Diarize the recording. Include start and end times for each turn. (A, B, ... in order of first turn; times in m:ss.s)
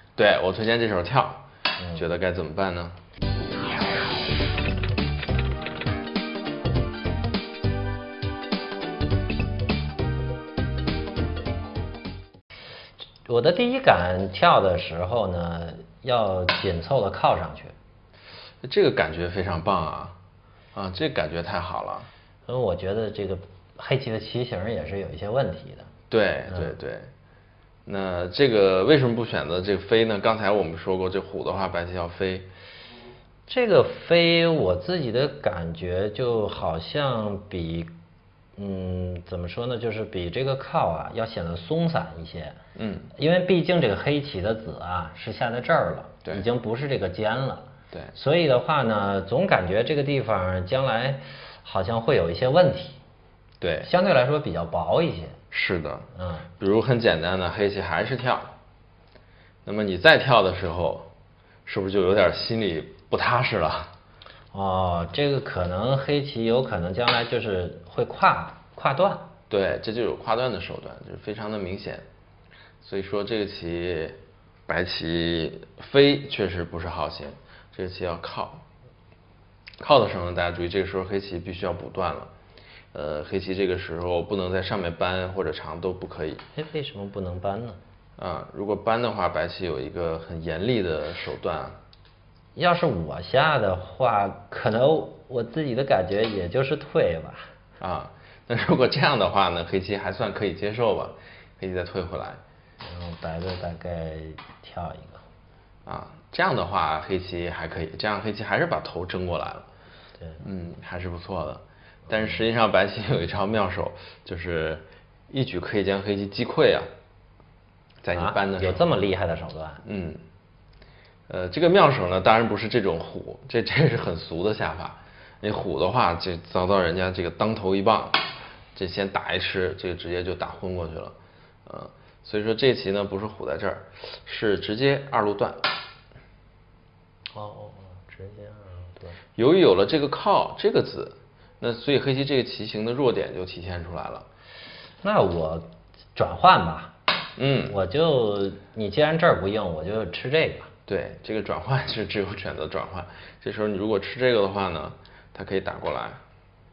0:00.2-0:03.0 A
0:13.3-0:17.8 B
0:18.6-0:20.2 A
0:20.7-0:22.1 A
0:22.5-0:25.9 B
0:26.1-0:27.1 A
0:26.5-0:26.8 B
0:27.9-0:32.5 A
0:33.5-0:37.9 B
0:38.6-0:42.6 B
0:42.8-0:43.1 A
0:43.2-0:53.0 B
0:53.6-0:53.9 A
0:53.8-0:55.4 B
0:55.5-0:56.1 A
0:56.1-0:56.5 B
0:56.6-0:58.5 A
0:59.6-1:01.1 A
1:01.6-1:03.9 A
1:04.5-1:09.3 B
1:09.5-1:12.0 A
1:12.8-1:18.6 A
1:19.8-1:22.3 A
1:22.9-1:26.4 A
1:26.6-1:27.8 B
1:28.2-1:31.8 A
1:32.6-1:37.5 B
1:37.8-1:42.4 A
1:42.8-1:45.2 B
1:45.9-1:49.7 A
1:50.4-1:56.9 A
1:58.0-1:59.0 A
1:58.1-1:59.8 B
1:59.8-2:00.2 A
2:01.3-2:08.2 A
2:08.8-2:15.7 A
2:17.3-2:19.2 B
2:19.4-2:24.3 A
2:25.0-2:27.0 B
2:27.4-2:27.8 A
2:27.7-2:30.7 B
2:30.9-2:36.2 A